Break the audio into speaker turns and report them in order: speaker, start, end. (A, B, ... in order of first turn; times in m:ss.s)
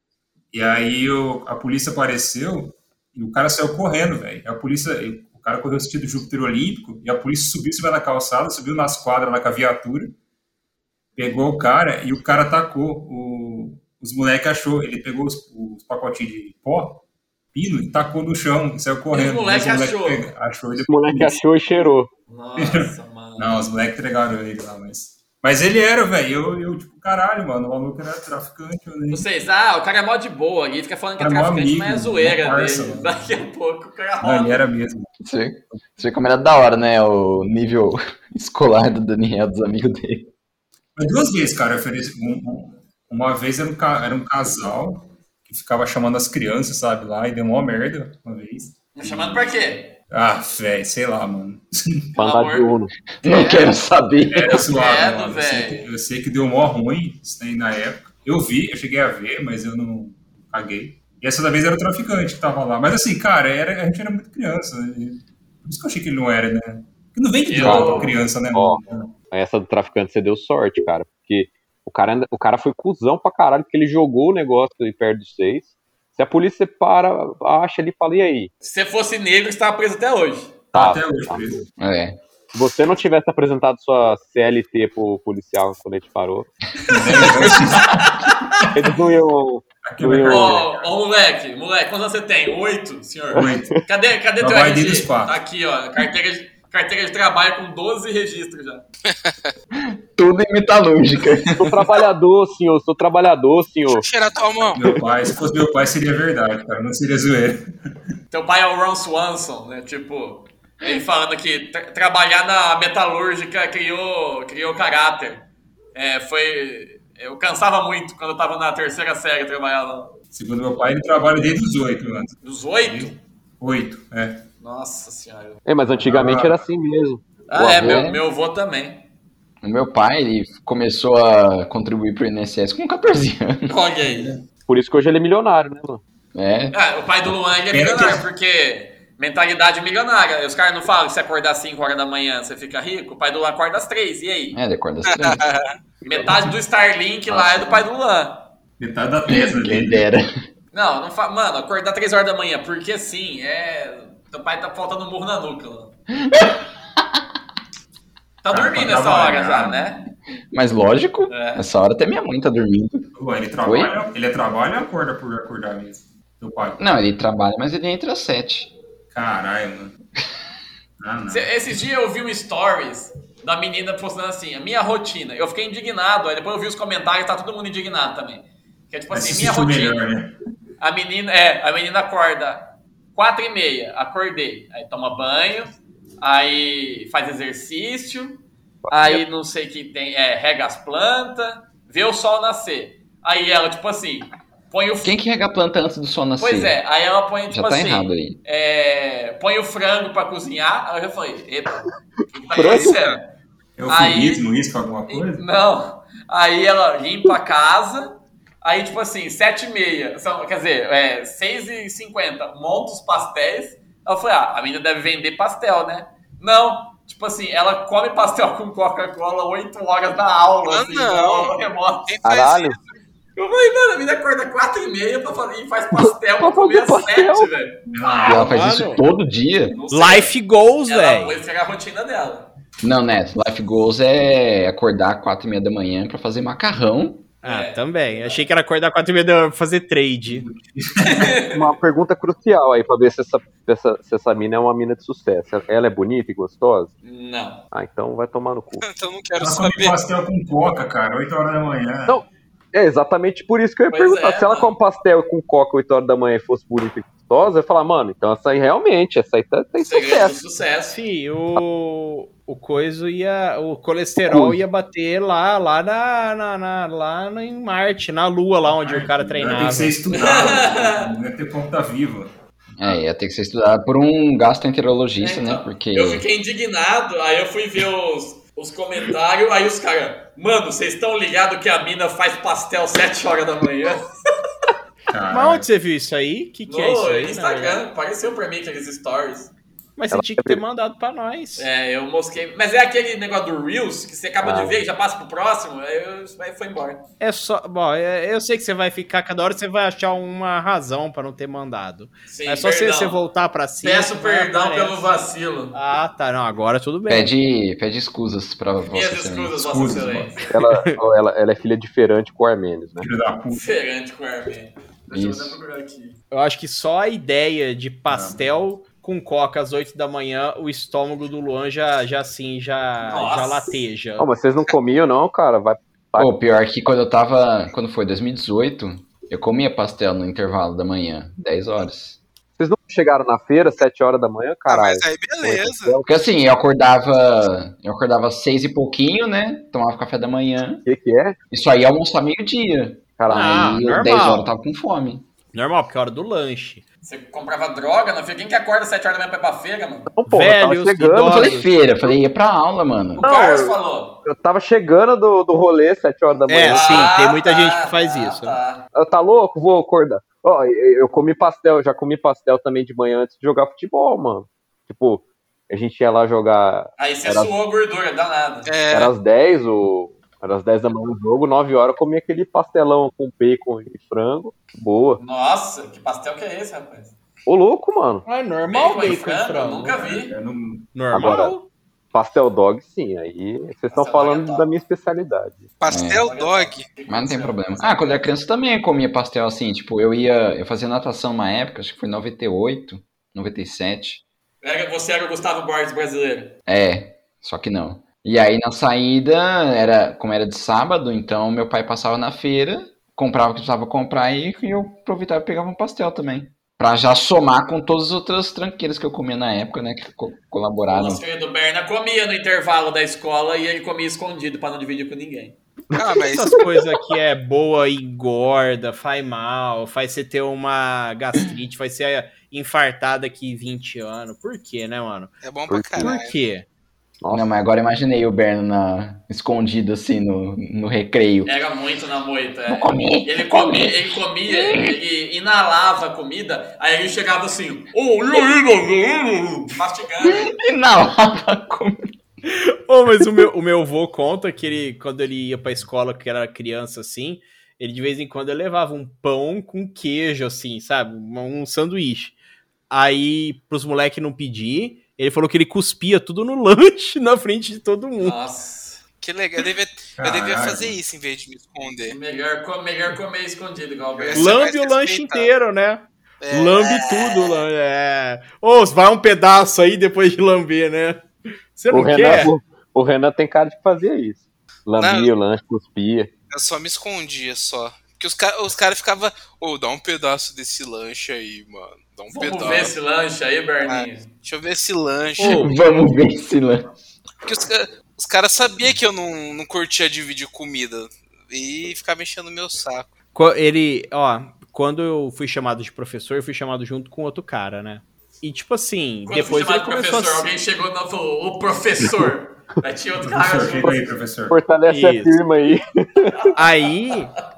0:00.5-0:10.1 A
0:11.2-0:17.0 A
0:17.5-0:21.4 A
0:19.1-0:20.2 B
0:20.9-0:22.1 C
0:22.3-0:23.5 B
0:22.6-0:29.2 A
0:29.1-0:34.6 B
0:31.2-0:33.2 A
0:34.2-0:35.1 A
0:35.2-0:40.3 D
0:41.0-0:49.5 A
0:49.0-0:50.0 B
0:50.1-0:52.2 A
0:52.2-0:52.9 C
0:52.2-0:52.7 B
0:53.2-0:54.6 D
0:54.3-1:09.2 A
0:54.4-0:55.9 B
1:07.4-1:08.2 B
1:07.6-1:18.5 C
1:18.6-1:20.7 B
1:20.7-1:21.7 A
1:20.7-1:21.5 C
1:21.8-1:22.2 D
1:22.5-1:26.5 C
1:26.9-1:28.0 A
1:26.9-1:28.7 B
1:28.7-1:30.6 C
1:29.8-1:30.8 A
1:30.2-1:38.8 B
1:33.4-1:33.8 A
1:34.4-1:35.4 A
1:39.1-1:39.5 E
1:39.8-1:41.7 D
1:41.6-1:44.0 C
1:43.9-1:44.9 E
1:44.7-1:47.6 A
1:48.3-2:00.2 B
2:00.3-2:04.4 A
2:02.4-2:03.2 B
2:04.6-2:05.7 B
2:05.7-2:08.0 C
2:06.0-2:06.6 A
2:07.5-2:09.0 B
2:07.8-2:08.2 D
2:09.6-2:13.7 D
2:13.7-2:14.4 B
2:14.7-2:16.0 C
2:16.3-2:16.8 D
2:16.7-2:24.6 B
2:17.7-2:18.2 A
2:24.5-2:25.4 D
2:25.1-2:25.8 E
2:26.1-2:28.4 B
2:27.3-2:27.8 D
2:28.8-2:30.0 A
2:29.3-2:30.3 D
2:30.7-2:35.9 B
2:36.1-2:37.2 D
2:38.4-2:40.0 B
2:38.5-2:39.8 A
2:40.5-2:43.1 D
2:41.3-2:41.6 B
2:43.2-2:46.8 A
2:43.6-2:43.9 D
2:46.8-2:48.7 D
2:49.1-2:50.0 A
2:51.0-2:51.5 A
2:51.3-3:00.0 B
2:59.1-3:00.3 A
3:00.8-3:15.2 B
3:08.9-3:09.2 C
3:15.0-3:16.8 D
3:16.4-3:23.3 B
3:17.5-3:18.4 D
3:22.5-3:23.0 C
3:23.8-3:25.4 A
3:23.9-3:24.4 B
3:25.1-3:42.1 B
3:40.7-3:42.8 E
3:42.2-3:42.8 C
3:43.4-3:48.9 B
3:45.9-3:47.5 C
3:47.9-3:48.5 A
3:48.2-3:49.8 D
3:48.4-3:49.0 F
3:49.6-3:50.4 B
3:49.9-3:51.4 F
3:50.9-3:52.5 B
3:52.8-3:57.3 D
3:57.4-3:58.5 B
3:57.4-4:00.5 F
4:00.3-4:01.4 A
4:01.0-4:01.6 B
4:01.5-4:06.9 C
4:07.0-4:07.6 B
4:07.7-4:08.8 C
4:08.8-4:10.0 E
4:09.4-4:12.2 A
4:12.1-4:20.4 C
4:13.9-4:14.7 B
4:19.8-4:21.0 B
4:20.9-4:30.0 F
4:24.3-4:24.6 C
4:28.7-4:32.3 A
4:30.1-4:31.1 B
4:32.8-4:36.2 D
4:35.2-4:44.1 B
4:45.1-4:45.7 A
4:45.3-4:47.8 F
4:46.7-4:49.5 B
4:50.0-4:51.7 F
4:50.1-4:50.6 C
4:51.6-4:57.0 B
4:54.4-4:54.8 C
4:57.2-5:05.1 F
5:02.3-5:03.2 B
5:03.8-5:05.8 B
5:05.7-5:07.3 F
5:07.1-5:09.6 D
5:08.9-5:10.5 B
5:09.6-5:10.4 A
5:10.5-5:13.1 C
5:10.7-5:11.0 F
5:13.0-5:13.6 A
5:13.6-5:16.2 B
5:15.1-5:15.6 D
5:16.3-5:24.3 F
5:18.1-5:18.4 A
5:23.1-5:23.8 B
5:24.2-5:26.3 C
5:26.2-5:32.2 D
5:32.6-5:36.0 C
5:34.7-5:36.0 E
5:36.0-5:40.8 D
5:40.8-5:41.4 C
5:41.5-5:45.2 D
5:43.2-5:43.5 C
5:43.3-5:44.5 F
5:45.5-5:46.8 F
5:47.0-5:50.1 B
5:50.1-5:52.1 C
5:50.3-5:51.7 F
5:51.3-5:53.2 D
5:53.2-5:54.2 B
5:53.2-5:57.1 C
5:56.5-5:58.6 F
5:56.7-5:58.8 B
5:59.0-6:07.5 C
6:07.0-6:08.7 B
6:08.7-6:09.1 E
6:08.9-6:15.2 C
6:15.2-6:17.2 B
6:17.5-6:18.2 C
6:18.3-6:20.0 F
6:18.7-6:20.4 B
6:20.0-6:21.3 A
6:20.9-6:21.7 F
6:21.1-6:21.6 C
6:22.1-6:25.7 C
6:23.9-6:24.7 B
6:25.8-6:26.9 E
6:25.9-6:26.2 D
6:26.1-6:28.3 B
6:27.1-6:34.2 D
6:34.6-6:36.6 B
6:36.7-6:51.2 D
6:50.9-6:55.6 B
6:56.0-6:56.5 E
6:56.0-6:56.2 C
6:56.3-7:05.3 F
7:05.4-7:06.4 E
7:05.7-7:06.2 C
7:06.0-7:06.7 F
7:07.2-7:07.5 C
7:07.3-7:11.5 D
7:11.4-7:20.5 B
7:12.7-7:15.0 D
7:20.2-7:22.1 D
7:22.5-7:32.4 F
7:32.9-7:38.4 F
7:38.2-7:39.0 B
7:39.2-7:42.2 E
7:40.2-7:41.0 A
7:42.1-7:44.6 B
7:44.3-7:45.5 E
7:44.4-7:52.5 F
7:46.4-7:47.6 E
7:51.9-7:56.3 C
7:55.0-7:55.3 E
7:56.5-8:03.0 E
8:02.3-8:04.3 B
8:03.8-8:05.7 E
8:05.4-8:05.7 F
8:05.4-8:06.9 D
8:07.4-8:13.1 E
8:13.4-8:20.5 F
8:19.3-8:24.2 B
8:22.0-8:22.3 C
8:23.2-8:24.6 A
8:24.5-8:26.5 C
8:24.9-8:25.4 F
8:26.6-8:27.3 F